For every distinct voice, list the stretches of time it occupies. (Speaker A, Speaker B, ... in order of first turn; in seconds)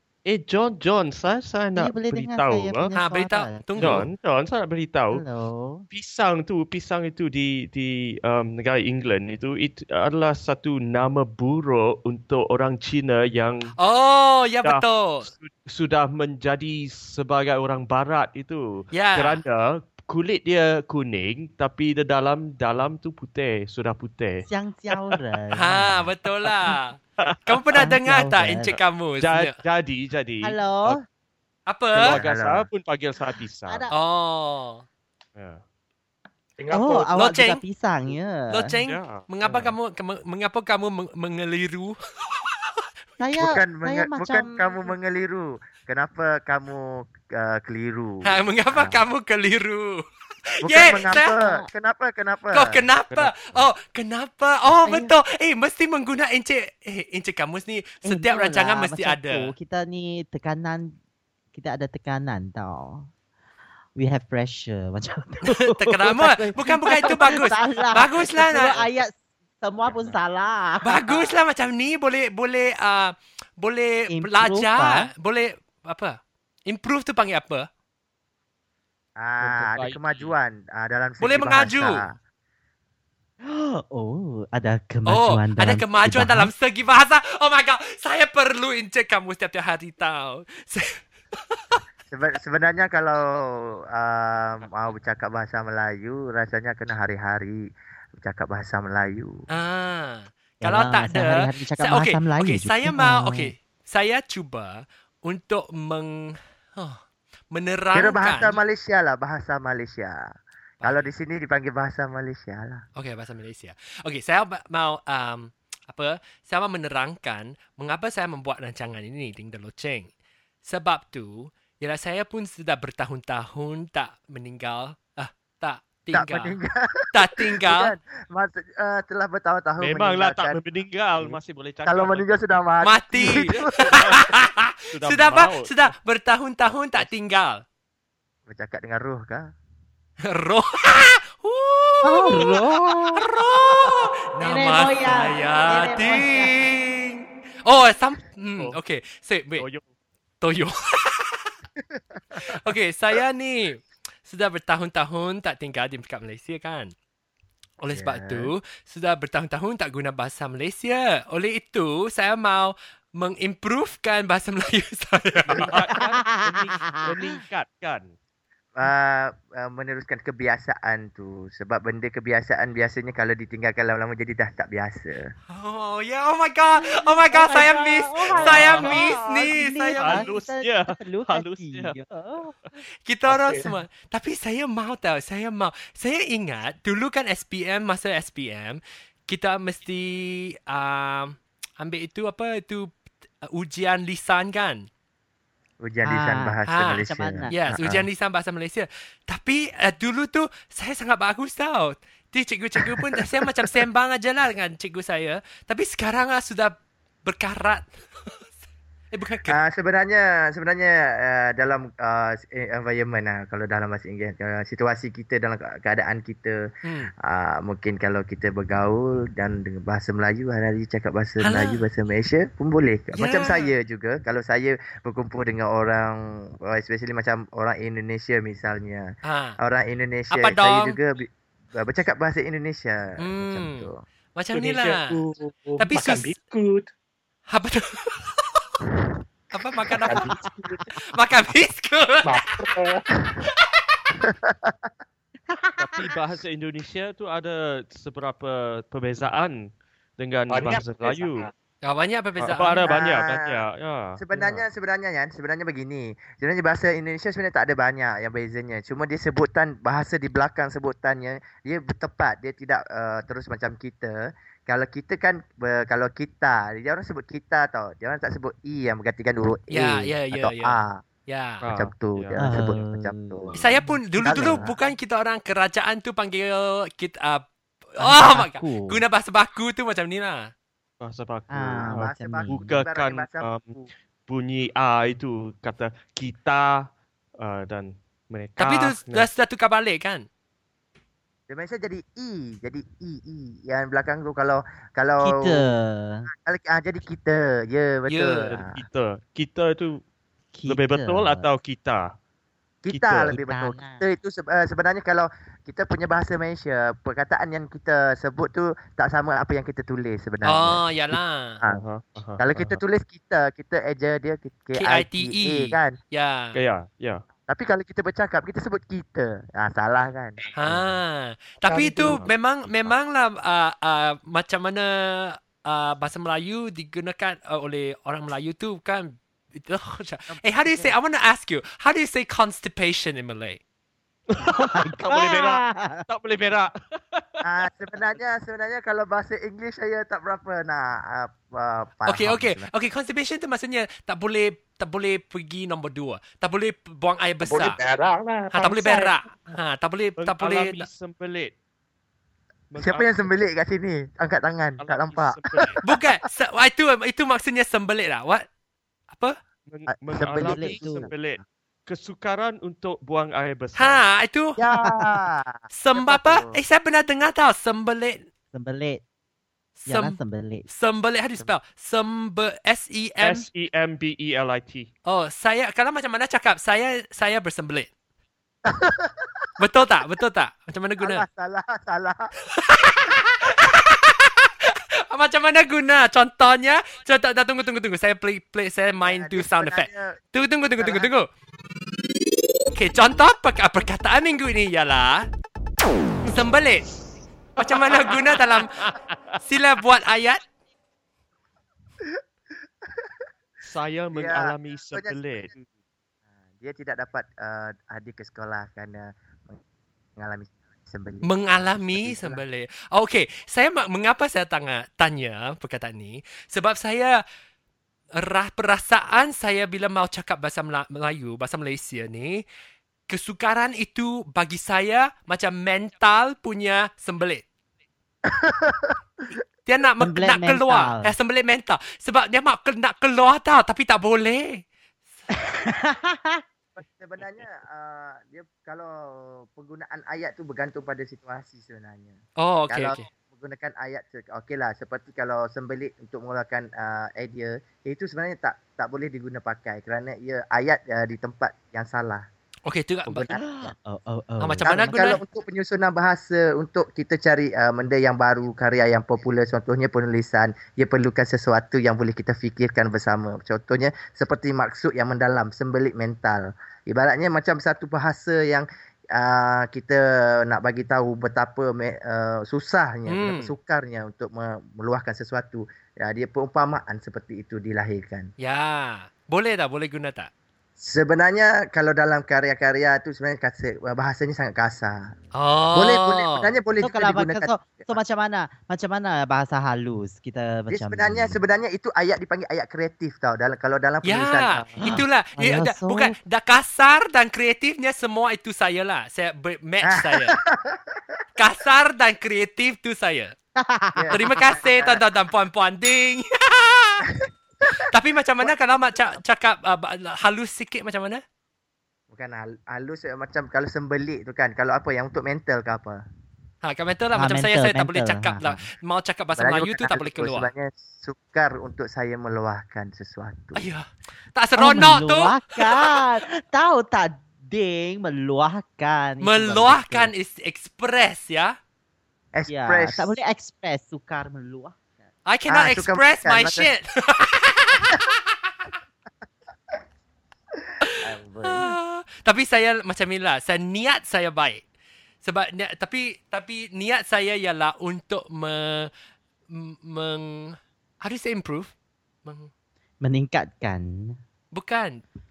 Speaker A: 0.2-2.9, 3.8-5.2, 5.9-13.7, 14.6-25.2, 27.2-27.9, 28.7-31.0, 32.0-33.8, 35.3-35.6, 38.8-39.7, 53.1-53.7, 79.4-80.3, 129.8-132.4, 133.2-134.3, 134.9-135.9, 149.6-149.9, 165.5-168.1, 178.3-179.2, 179.9-182.0, 245.8-251.5, 252.4-254.6, 271.6-272.4, 281.0-289.3, 298.5-300.0, 300.7-302.1, 302.9-303.4, 311.7-312.8, 316.5-317.2, 320.6-321.0, 322.0-322.9, 334.3-337.4, 350.2-351.5, 352.7-353.3, 354.8-355.8, 359.7-364.0, 373.2-374.9, 397.6-399.4, 403.6-405.5
Speaker B: 1.8-4.0, 5.1-5.8, 24.4-26.1, 27.8-28.7, 30.4-31.0, 33.7-33.9, 36.7-38.7, 43.2-45.0, 51.1-51.7, 54.8-55.1, 58.0-61.0, 61.5-63.1, 64.0-71.3, 74.1-75.1, 83.4-86.5, 100.6-103.5, 142.0-143.9, 144.4-146.5, 166.2-167.2, 176.8-182.5, 196.0-197.5, 245.5-245.8, 272.4-274.7, 278.0-279.0, 281.5-282.7, 295.2-296.3, 300.5-301.5, 303.3-304.0, 334.6-336.0, 360.4-361.1, 364.7-365.1, 368.5-369.0, 369.9-370.6, 430.0-431.1, 435.3-436.4, 453.4-454.7, 486.8-491.4, 494.8-496.1, 503.6-504.3, 517.1-518.6, 524.6-530.1, 532.5-534.8, 553.0-554.2
Speaker C: 3.0-4.0, 13.8-15.3, 18.9-19.4, 25.5-29.6, 31.7-32.2, 33.9-34.8, 37.1-37.6, 38.5-42.0, 48.2-50.0, 50.6-51.3, 52.5-59.5, 65.5-68.8, 70.8-77.7, 81.2-82.0, 85.0-91.6, 99.5-108.6, 110.8-111.1, 113.0-120.1, 120.6-126.6, 127.1-127.9, 132.8-137.6, 140.2-149.6, 150.4-151.5, 152.4-156.9, 157.8-165.8, 175.5-180.3, 183.1-194.9, 196.7-208.5, 209.1-209.6, 216.8-217.1, 221.4-221.8, 223.1-223.7, 229.2-229.6, 230.3-231.0, 233.2-235.2, 235.8-236.3, 237.5-238.8, 239.5-240.4, 240.9-242.7, 243.4-243.8, 251.8-252.9, 269.7-271.6, 273.5-280.5, 288.6-290.3, 298.1-298.5, 310.4-311.6, 314.8-316.6, 320.5-333.6, 342.1-347.8, 348.5-350.9, 355.8-358.4, 359.1-359.4, 363.8-364.6, 365.7-368.2, 369.8-373.4, 375.0-377.9, 379.6-381.2, 382.5-391.3, 392.7-395.3, 396.2-396.9, 397.6-398.8, 399.4-400.4, 411.2-417.2, 418.2-422.4, 423.1-427.4, 429.6-434.6, 442.4-443.0, 452.6-453.4, 454.4-455.2, 473.1-473.5, 478.4-480.3, 485.3-486.5, 494.0-500.4, 501.4-503.3, 504.1-507.0, 507.7-511.2, 516.6-520.5, 523.5-526.0, 529.2-531.5, 535.2-538.2, 540.8-544.6, 545.2-548.9, 549.5-551.7, 552.2-552.5, 554.5-555.0
Speaker D: 31.9-32.7, 43.4-49.0, 50.6-52.8, 79.2-82.2, 92.1-99.4, 107.9-112.8, 126.1-130.6, 131.2-133.9, 138.5-139.5, 151.9-152.4, 157.9-158.5, 168.8-175.3, 195.8-198.1, 202.8-203.2, 209.5-216.6, 217.2-234.0, 239.9-240.3, 243.1-243.4, 244.2-244.9, 252.8-253.6, 254.2-271.0, 271.7-273.6, 274.2-274.7, 281.8-283.9, 291.5-295.7, 296.4-298.8, 302.8-311.8, 312.4-316.0, 317.5-320.4, 330.3-330.9, 337.4-342.7, 352.8-356.0, 359.9-361.1, 364.6-366.6, 378.6-379.5, 381.0-382.3, 389.0-390.2, 390.8-391.1, 402.9-403.1, 404.1-405.6, 406.6-409.6, 410.2-412.4, 428.2-429.4, 436.8-452.2, 453.1-453.7, 454.6-478.3, 480.8-485.0, 485.7-488.0, 490.7-495.0, 499.8-501.2, 503.9-505.0, 507.0-507.9, 508.4-509.1, 512.1-516.0, 519.3-523.6, 532.3-533.1, 535.5-536.7, 540.9-541.8
Speaker E: 36.6-37.1, 183.3-183.6, 234.5-236.9, 240.0-240.8, 242.2-243.1, 250.5-251.5, 347.5-349.1